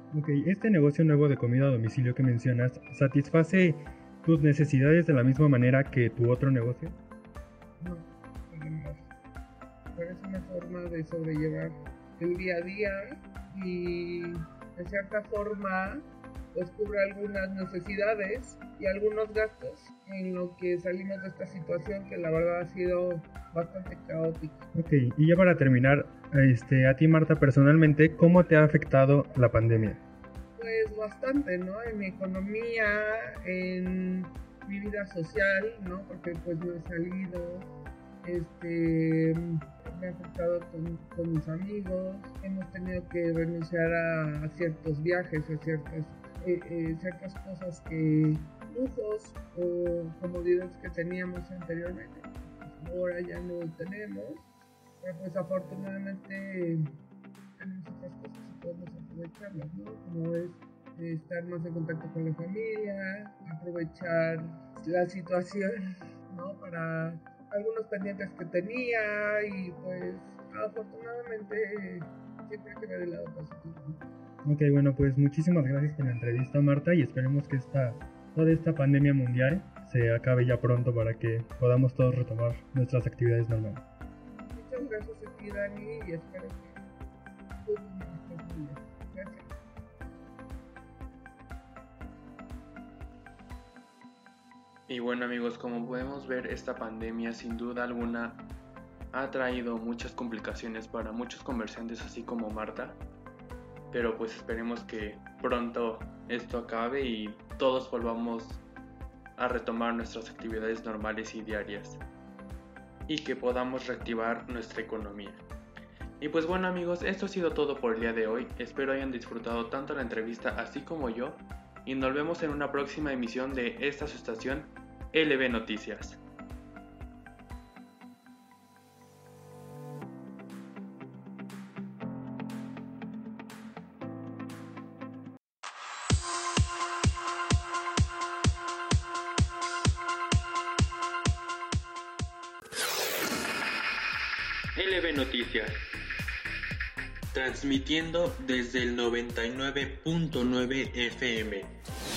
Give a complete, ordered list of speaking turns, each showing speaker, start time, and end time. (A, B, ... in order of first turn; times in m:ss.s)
0:00.1-0:07.0 A
0:07.8-0:09.0 B
0:09.9-0:24.6 B
0:24.7-0:30.0 A
0:30.6-0:37.7 B
0:38.2-0:54.5 B
0:55.0-0:57.0 B
0:57.6-1:05.8 B
1:06.3-1:14.0 B
1:14.4-1:23.8 A
1:24.3-1:26.8 B
1:27.6-1:29.5 B
1:34.9-1:38.4 C
1:39.1-1:43.0 C
1:43.9-1:48.6 C
1:49.4-1:52.0 C
1:53.1-1:55.4 C
1:56.2-2:06.2 C
2:24.7-2:25.8 C
2:27.3-2:31.7 C